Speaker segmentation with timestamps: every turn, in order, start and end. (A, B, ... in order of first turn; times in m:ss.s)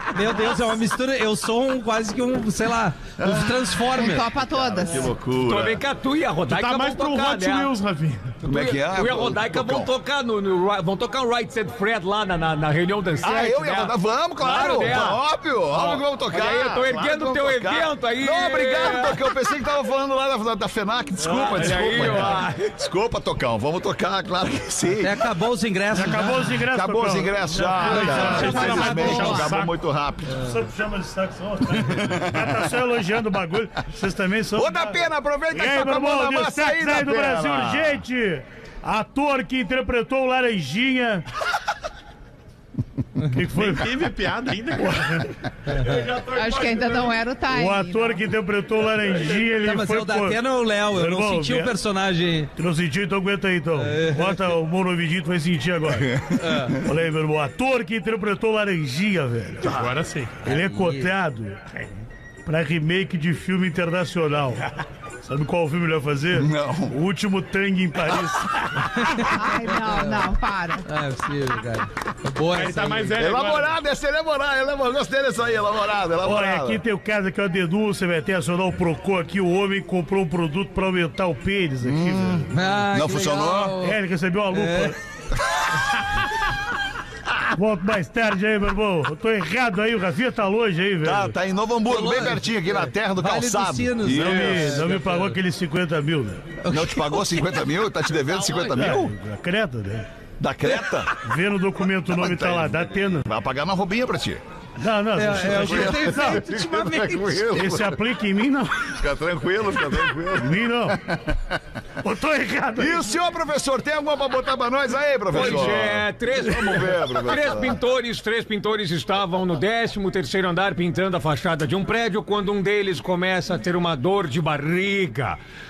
0:00.1-0:04.3 A
0:03.2-0:05.8 B
0:04.0-0:05.1 C
0:05.4-0:07.7 D
0:06.5-0:08.4 E
0:08.4-0:19.5 D
0:08.4-0:09.9 B
0:13.2-0:25.2 B
0:21.2-0:22.7 D
0:25.0-0:26.5 A
0:25.9-0:29.7 F
0:26.7-0:30.6 B
0:27.8-0:29.5 A
0:28.0-0:29.6 E
0:28.3-0:28.7 D
0:30.3-0:35.0 F
0:31.8-0:32.5 B
0:34.6-0:38.0 B
0:35.5-0:41.3 F
0:43.3-0:43.9 F
0:43.5-0:45.3 E
0:44.9-0:45.3 F
0:45.7-0:46.1 A
0:46.2-0:48.2 C
0:47.5-0:51.8 F
0:49.6-0:52.5 A
0:52.6-0:59.8 F
0:53.8-0:54.5 A
0:56.0-0:56.6 B
0:56.4-0:56.8 A
0:59.6-1:00.4 E
1:00.4-1:01.1 A
1:00.4-1:01.9 F
1:02.5-1:04.6 F
1:05.2-1:09.0 F
1:06.3-1:07.0 B
1:08.9-1:13.2 A
1:09.2-1:10.9 C
1:12.5-1:13.8 E
1:13.2-1:16.8 B
1:16.2-1:22.5 F
1:21.8-1:23.8 B
1:22.5-1:24.0 A
1:23.8-1:25.0 F
1:24.5-1:25.0 A
1:27.6-1:31.3 F
1:31.0-1:34.8 B
1:31.9-1:35.4 A
1:34.1-1:36.5 F
1:36.6-1:37.5 A
1:36.7-1:39.1 B
1:38.7-1:40.1 F
1:40.4-1:41.2 B
1:41.2-1:43.2 F
1:42.1-1:44.4 B
1:44.8-1:46.4 F
1:45.2-1:47.6 A
1:45.3-1:48.0 B
1:47.5-1:49.0 F
1:48.9-1:51.4 B
1:50.4-1:51.0 F
1:52.0-1:53.1 F
1:52.8-1:57.8 B
1:55.3-2:05.4 D